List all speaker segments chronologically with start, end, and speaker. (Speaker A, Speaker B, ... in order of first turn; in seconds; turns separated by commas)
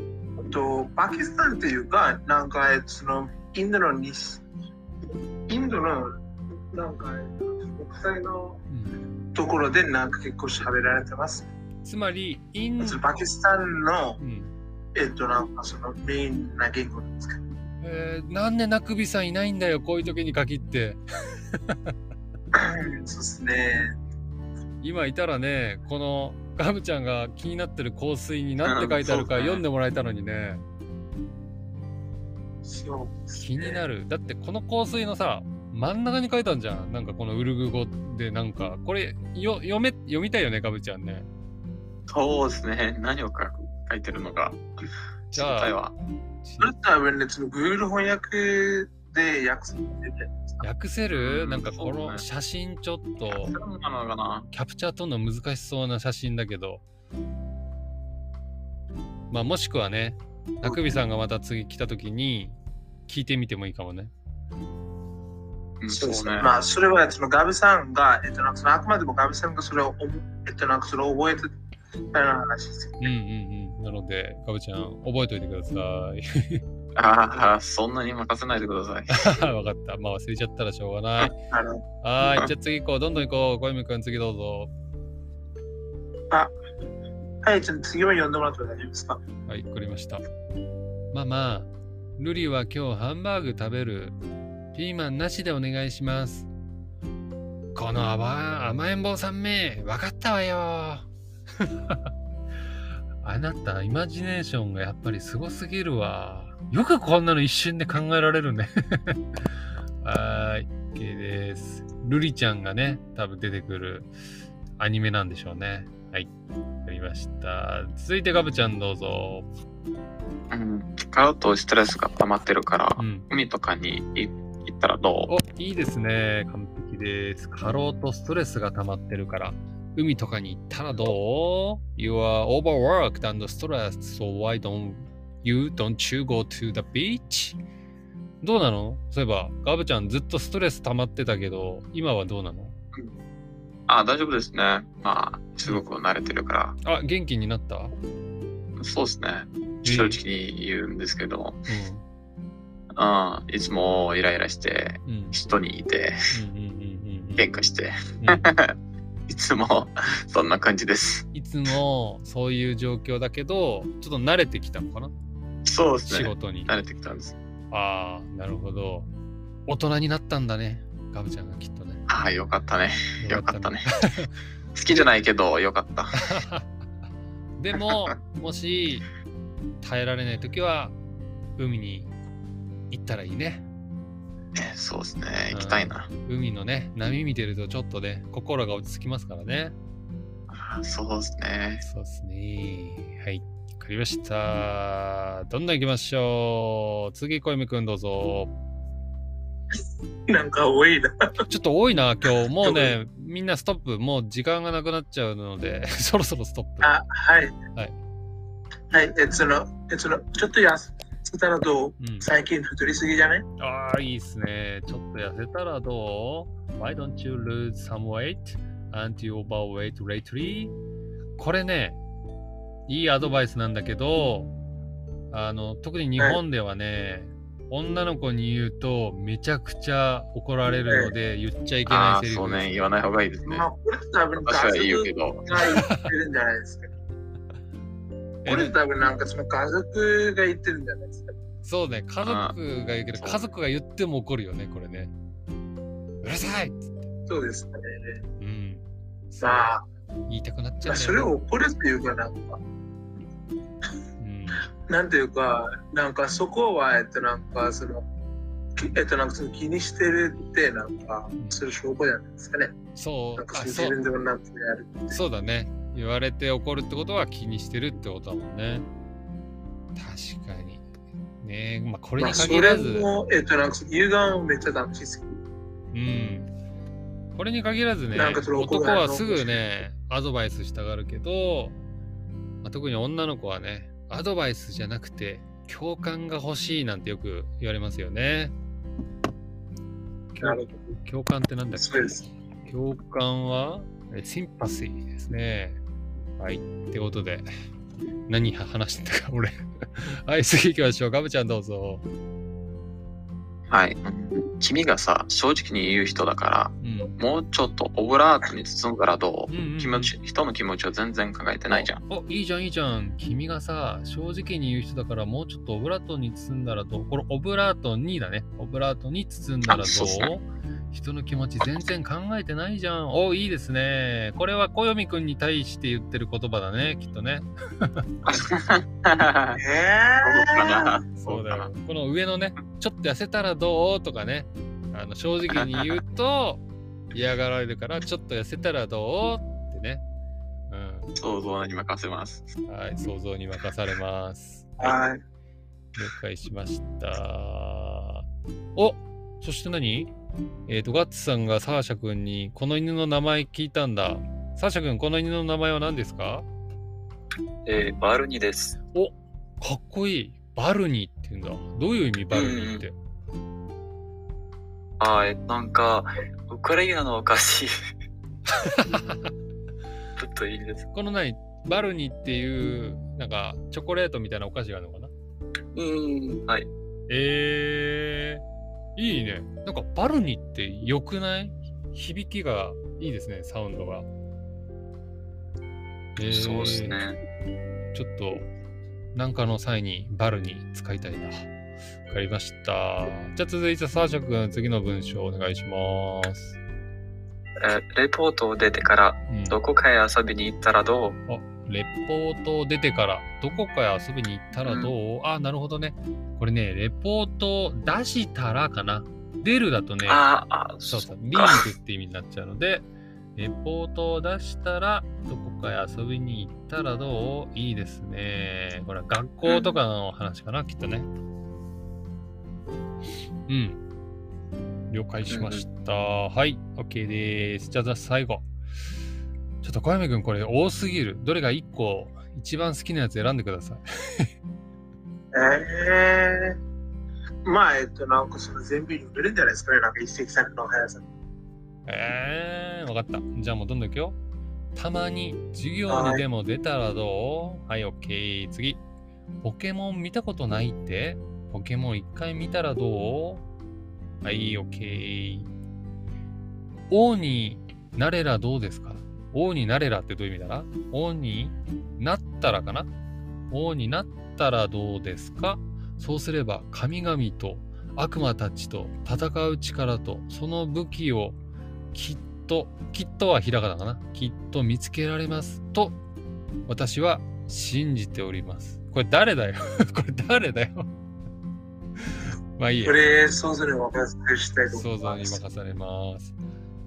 Speaker A: 0.4-4.4, Speaker A: 5.5-6.2, Speaker A: 6.7-8.6, Speaker B: 8.7-9.0, Speaker A: 9.3-11.4, Speaker B: 11.8-13.0, Speaker A: 12.8-14.2, Speaker B: 14.2-14.5, Speaker A: 14.9-17.4, Speaker B: 17.8-21.9, Speaker A: 22.5-23.9, Speaker B: 24.8-30.6, Speaker C: 28.6-29.6, Speaker A: 32.6-33.8, Speaker B: 33.4-41.3, Speaker C: 42.1-44.6, Speaker C: 45.3-45.9, Speaker B: 45.3-45.8, Speaker B: 46.4-46.7, Speaker A: 46.6-50.6, Speaker B: 50.6-53.5, Speaker C: 51.1-52.2, Speaker C: 53.3-54.5, Speaker B: 54.5-56.8, Speaker B: 59.3-62.5, Speaker B: 63.1-64.1, Speaker C: 65.8-66.6, Speaker A: 65.9-71.5, Speaker A: 72.1-73.1, Speaker B: 73.0-76.6, Speaker C: 77.0-79.4, Speaker B: 79.1-81.3, Speaker A: 81.3-81.8, Speaker B: 82.0-84.7, Speaker A: 87.4-89.2, Speaker B: 89.5-90.2, Speaker B: 91.1-94.2, Speaker B: 94.7-96.5, Speaker B: 97.7-101.1, Speaker B: 101.6-102.1, Speaker B: 103.2-109.2, Speaker B: 110.0-114.1, Speaker B: 114.8-116.3, Speaker B: 116.8-119.5, Speaker C: 120.5-125.3, Speaker B: 123.0-123.3, Speaker B: 125.3-137.6, Speaker B: 138.4-142.8, Speaker C: 143.9-146.8, Speaker B: 146.8-147.9, Speaker C: 148.8-151.7, Speaker B: 149.8-150.2, Speaker B: 151.7-152.0, Speaker C: 152.9-156.3, Speaker B: 155.1-155.4, Speaker B: 156.3-157.5, Speaker C: 157.4-158.8, Speaker B: 158.2-158.5, Speaker C: 159.3-161.3, Speaker B: 161.3-165.1, Speaker C: 165.6-167.3, Speaker B: 166.1-166.7, Speaker B: 167.7-169.1, Speaker B: 169.7-172.1, Speaker C: 172.1-173.9, Speaker B: 173.2-174.3, Speaker C: 174.7-176.4, Speaker B: 176.2-176.7, Speaker B: 177.6-179.1, Speaker B: 179.8-180.9, Speaker B: 181.6-182.1, Speaker B: 182.9-183.6, Speaker C: 184.5-186.1, Speaker B: 185.5-189.7, Speaker C: 190.5-191.8, Speaker B: 191.8-198.5, Speaker A: 200.3-201.3, Speaker B: 201.5-206.9, Speaker A: 202.6-202.9, Speaker A: 206.8-207.6, Speaker A: 208.9-213.4, Speaker B: 212.0-212.3, Speaker B: 213.6-220.7, Speaker B: 221.4-222.0, Speaker B: 222.9-224.5, Speaker B: 225.3-232.8, Speaker A: 230.9-231.1, Speaker C: 231.9-233.7, Speaker A: 233.4-236.9, Speaker C: 234.4-235.7, Speaker B: 235.5-236.1, Speaker B: 238.4-238.8, Speaker A: 238.5-241.3, Speaker B: 241.6-245.1, Speaker C: 242.2-242.6, Speaker C: 243.2-243.5, Speaker B: 246.2-246.9, Speaker A: 247.3-248.2, Speaker B: 248.4-249.7, Speaker A: 249.4-249.8, Speaker B: 250.3-251.3, Speaker A: 250.8-252.6, Speaker B: 254.2-254.7, Speaker A: 254.9-258.0, Speaker A: 258.8-262.7, Speaker B: 261.4-261.6, Speaker B: 262.9-264.0, Speaker A: 263.4-265.2, Speaker B: 265.1-268.9, Speaker B: 269.9-270.8, Speaker B: 271.4-273.1, Speaker A: 272.2-275.4, Speaker B: 275.9-276.5, Speaker B: 277.3-281.8, Speaker A: 278.1-279.6, Speaker B: 282.6-288.5, Speaker B: 290.3-292.1, Speaker A: 290.4-290.8, Speaker A: 291.7-292.2, Speaker B: 292.7-295.8, Speaker B: 296.4-297.5, Speaker B: 298.3-302.0, Speaker C: 303.7-312.0, Speaker B: 306.8-307.2, Speaker B: 309.5-310.1, Speaker B: 311.7-328.1, Speaker C: 319.6-320.3, Speaker C: 328.2-329.6, Speaker A: 329.5-330.9, Speaker C: 330.2-331.7, Speaker B: 331.2-340.0, Speaker C: 335.5-335.8, Speaker B: 340.7-341.1, Speaker C: 341.1-342.5, Speaker B: 342.7-345.0, Speaker A: 344.8-345.2, Speaker B: 346.0-348.2, Speaker B: 348.8-350.1, Speaker B: 350.7-356.4, Speaker D: 357.6-358.8, Speaker B: 358.9-362.9, Speaker D: 362.3-362.8, Speaker D: 365.0-367.7, Speaker B: 368.5-369.3, Speaker D: 370.2-370.9, Speaker B: 370.9-375.1, Speaker D: 375.7-376.7, Speaker B: 377.1-378.4, Speaker B: 378.9-384.1, Speaker B: 386.2-387.0, Speaker D: 386.3-387.2, Speaker B: 387.9-388.5, Speaker B: 389.1-391.5, Speaker B: 392.1-396.6, Speaker D: 397.6-401.2, Speaker B: 399.3-399.6, Speaker B: 401.3-410.2, Speaker D: 404.6-404.9, Speaker D: 410.1-411.6, Speaker B: 410.8-412.8, Speaker B: 413.4-421.1, Speaker D: 419.4-419.7, Speaker B: 423.5-423.8, Speaker B: 424.9-428.4, Speaker D: 425.3-425.6, Speaker B: 429.6-434.3, Speaker A: 435.3-436.6, Speaker A: 437.4-441.0, Speaker B: 441.9-444.1, Speaker B: 444.7-448.8, Speaker A: 445.9-446.2, Speaker B: 449.4-453.4, Speaker B: 454.2-455.5, Speaker B: 456.9-462.9, Speaker B: 463.5-471.4, Speaker B: 471.9-476.0, Speaker B: 476.7-480.9, Speaker B: 482.0-483.0, Speaker A: 482.9-485.4, Speaker B: 484.7-486.3